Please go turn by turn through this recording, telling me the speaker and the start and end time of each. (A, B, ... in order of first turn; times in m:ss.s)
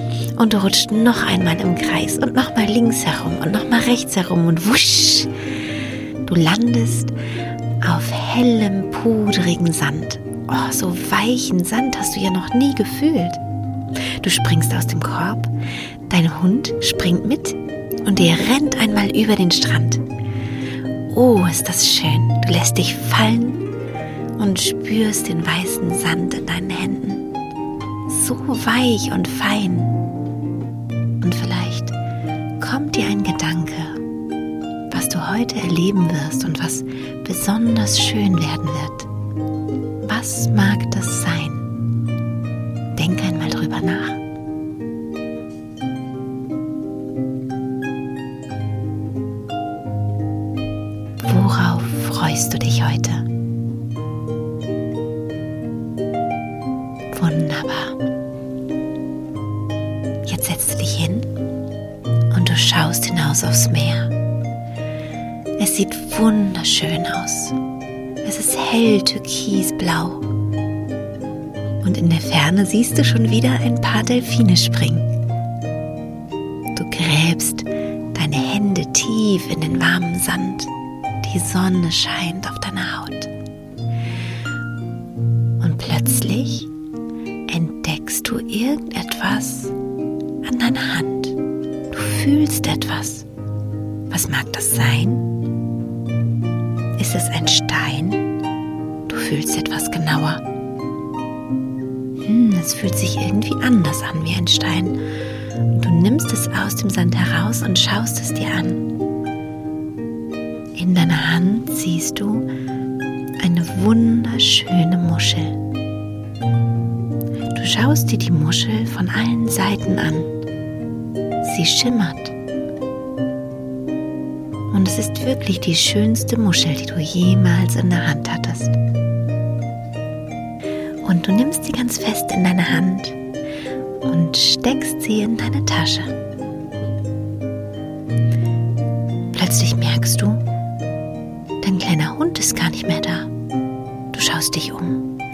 0:00.3-0:05.3 A
0:06.2-0:07.1 A
0:07.8-0:13.4 A
0:14.1-0:15.5 A
0:16.1-0:20.0 A
0:21.1-0:23.6 A
0:24.4-0:27.3 A
0:28.1-0:30.0 A
0:31.2-0:32.0 A
0:32.6-0:34.0 A
0:34.9-0:39.1 A
0:40.0-0:41.7 A
0:42.9-0:44.2 A
0:51.2-0:53.3 A
0:57.1-0:58.0 A
1:00.2-1:01.3 A
1:02.3-1:04.2 A
1:05.6-1:07.6 A
1:08.2-1:10.3 A
1:11.8-1:15.1 A
1:16.7-1:23.3 A
1:25.6-1:26.7 A
1:27.5-1:29.8 A
1:30.4-1:31.4 A
1:31.9-1:33.2 A
1:34.1-1:35.3 A
1:37.0-1:38.2 A
1:39.1-1:40.4 A
1:42.2-1:45.0 A
1:45.7-1:48.9 A
1:50.7-1:52.5 A
1:53.4-1:55.6 A
1:57.5-2:00.3 A
2:01.4-2:02.3 A
2:04.7-2:08.8 A
2:11.0-2:13.2 A
2:14.0-2:16.1 A
2:19.3-2:20.4 A
2:21.6-2:23.3 A
2:24.1-2:25.1 A